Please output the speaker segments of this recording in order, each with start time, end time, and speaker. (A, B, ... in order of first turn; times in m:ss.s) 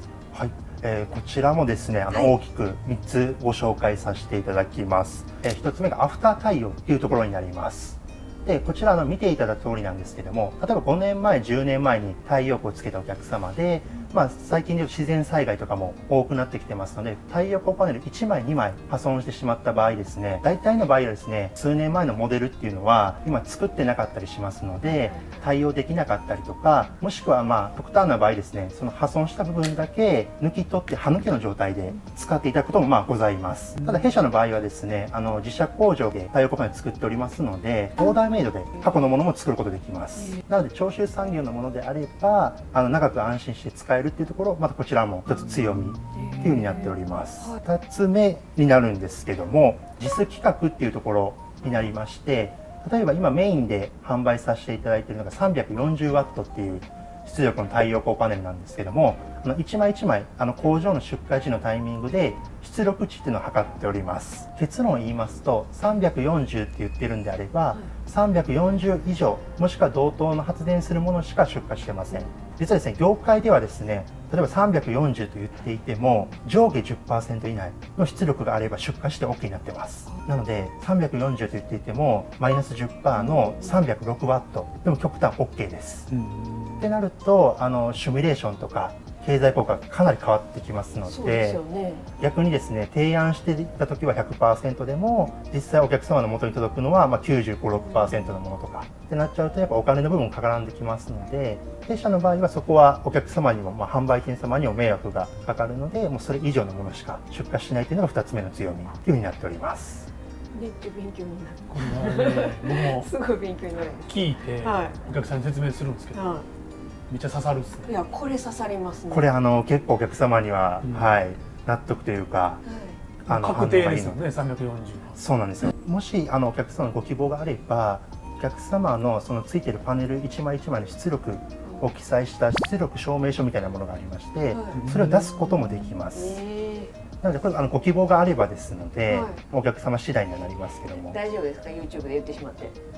0:00.3-1:26.1 A
0:24.8-0:25.5 B
0:33.8-0:34.1 C
0:46.1-0:47.6 B
1:23.3-1:23.7 B
1:26.1-1:26.9 C
1:26.8-1:31.6 A
1:31.0-1:32.1 B
1:32.2-1:50.1 A
1:37.9-1:38.2 B
1:50.5-1:55.0 B
1:51.7-1:53.1 C
1:54.1-1:56.2 C
1:56.1-1:56.4 B
1:57.1-1:57.9 C
1:57.9-1:59.3 B
1:59.1-2:02.6 A
2:00.8-2:01.1 C
2:02.6-2:03.0 B
2:03.2-2:04.2 A
2:03.3-2:05.2 C
2:05.2-2:16.4 A
2:14.5-2:14.8 B
2:14.7-2:15.6 C
2:16.0-2:16.9 B
2:17.2-2:21.2 A
2:19.1-2:19.4 B
2:21.0-2:22.8 B